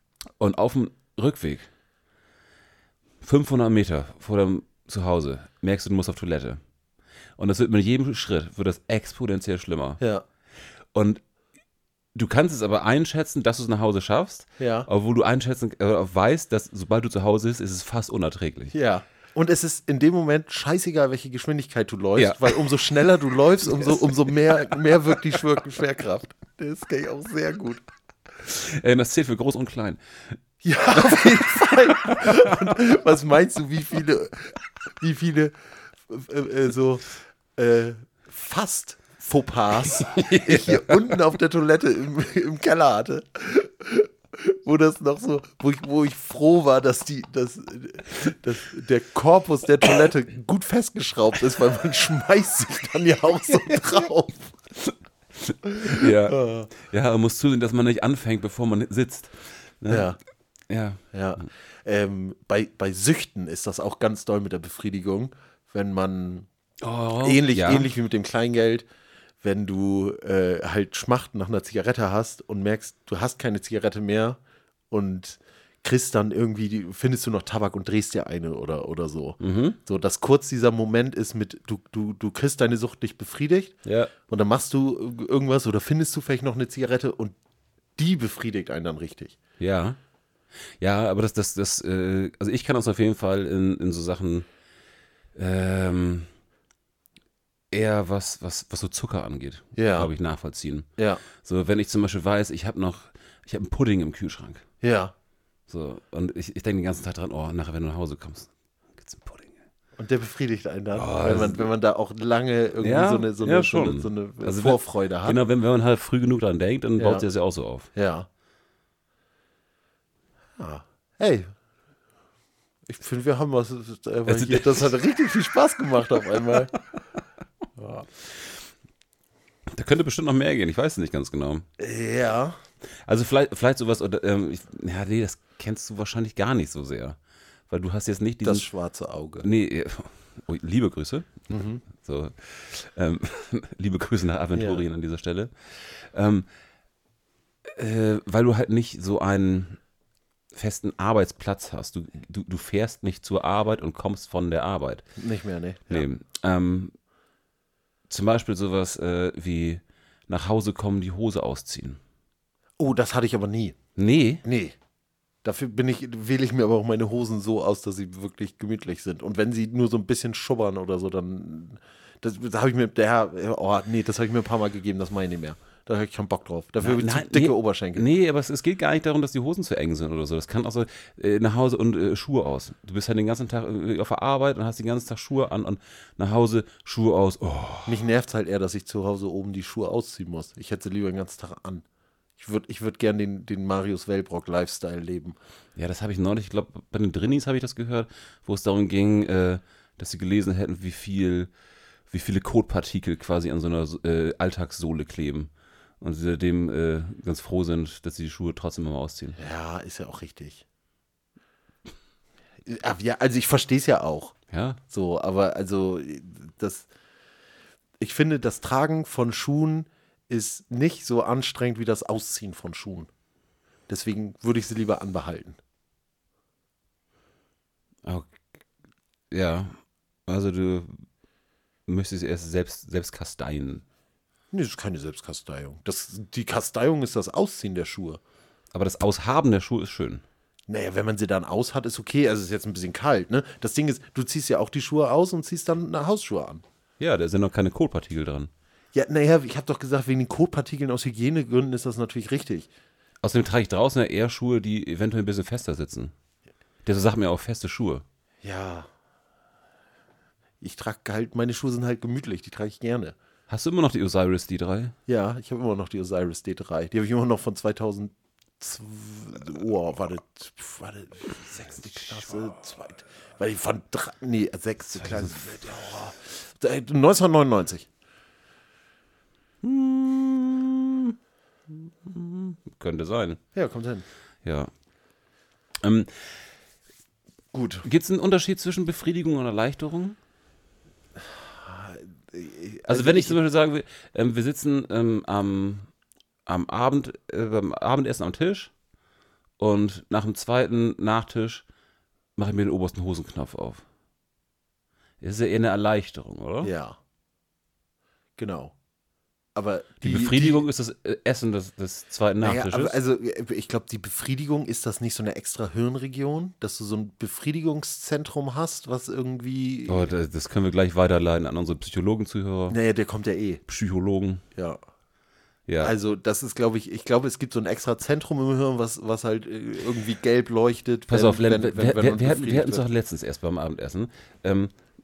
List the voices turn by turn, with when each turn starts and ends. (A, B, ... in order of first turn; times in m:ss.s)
0:00.4-0:01.7 A
0:03.2-0:06.6 A
0:07.4-0:10.0 A
0:10.9-0:11.2 A
0:12.2-0:18.7 A
0:14.6-0:14.9 B
0:18.7-0:27.8 B
0:22.2-0:22.8 A
0:23.6-0:25.0 A
0:28.4-0:30.4 A
0:30.6-0:35.6 B
0:31.0-0:32.8 A
0:36.1-0:54.6 B
0:39.9-0:41.2 A
0:55.4-1:00.1 A
0:55.6-0:56.7 B
0:59.9-1:00.2 B
1:00.7-1:01.0 A
1:01.1-1:06.5 B
1:06.8-1:07.9 A
1:07.2-1:08.9 B
1:09.4-1:14.4 B
1:14.9-1:23.8 B
1:19.4-1:19.8 A
1:23.8-1:24.1 A
1:24.3-1:27.4 B
1:28.0-1:29.4 B
1:29.6-1:30.0 A
1:30.8-1:34.5 A
1:35.4-1:36.3 A
1:37.7-1:44.6 A
1:39.8-1:40.1 B
1:41.0-1:41.2 B
1:44.8-1:45.1 B
1:45.7-1:49.6 A
1:50.0-1:55.4 B
1:50.9-1:51.7 A
1:52.8-1:57.9 A
1:57.0-1:57.2 B
1:57.9-1:58.3 B
2:00.6-2:01.5 B
2:02.9-2:06.7 B
2:04.3-2:04.9 A
2:07.8-2:08.1 B
2:09.7-2:11.6 A
2:11.8-2:12.6 B
2:13.0-2:17.2 A
2:17.7-2:18.7 A
2:18.4-2:19.5 B
2:19.4-2:26.5 A
2:21.5-2:21.8 B
2:24.5-2:24.8 B
2:27.7-2:29.8 A
2:30.5-2:35.1 A
2:35.2-2:36.1 B
2:35.9-2:36.9 A
2:38.1-2:42.0 A
2:42.8-2:43.8 B
2:44.0-2:44.4 A
2:44.4-2:44.8 B
2:45.4-2:58.1 B
2:56.8-3:08.0 A
3:07.9-3:11.8 B
3:12.4-3:15.4 B
3:15.8-3:21.5 A
3:22.1-3:29.4 A
3:29.4-3:30.6 B
3:32.7-3:34.4 B
3:34.5-3:34.8 A
3:34.9-3:36.9 B
3:38.0-3:43.1 B
3:43.9-3:45.6 B
3:48.0-3:48.3 A
3:49.3-3:51.0 A
3:51.9-3:53.8 A
3:54.5-3:58.2 B
3:58.7-4:00.2 A
4:00.7-4:06.6 B
4:07.0-4:08.5 A
4:08.9-4:12.7 B
4:13.2-4:16.1 A
4:16.8-4:18.0 A
4:18.4-4:18.9 B
4:20.6-4:23.2 B
4:23.5-4:25.0 A
4:25.1-4:37.9 B
4:35.0-4:35.6 A
4:39.6-4:41.2 A
4:41.7-4:43.4 A
4:43.5-4:44.0 B
4:44.4-4:44.7 A
4:45.8-4:46.3 A
4:47.5-4:47.9 B
4:47.8-4:50.2 A
4:51.6-4:53.4 B
4:52.9-4:55.9 A
4:56.5-4:58.7 A
4:59.6-5:01.6 A
5:02.4-5:03.8 A
5:05.2-5:06.7 A
5:06.6-5:07.0 B
5:08.4-5:08.7 B
5:09.6-5:10.6 B
5:10.0-5:13.0 A
5:12.4-5:20.1 B
5:19.9-5:22.8 A
5:22.7-5:23.6 B
5:23.7-5:24.4 A
5:24.6-5:24.8 B
5:25.7-5:26.0 A
5:25.8-5:32.8 B
5:31.1-5:34.7 A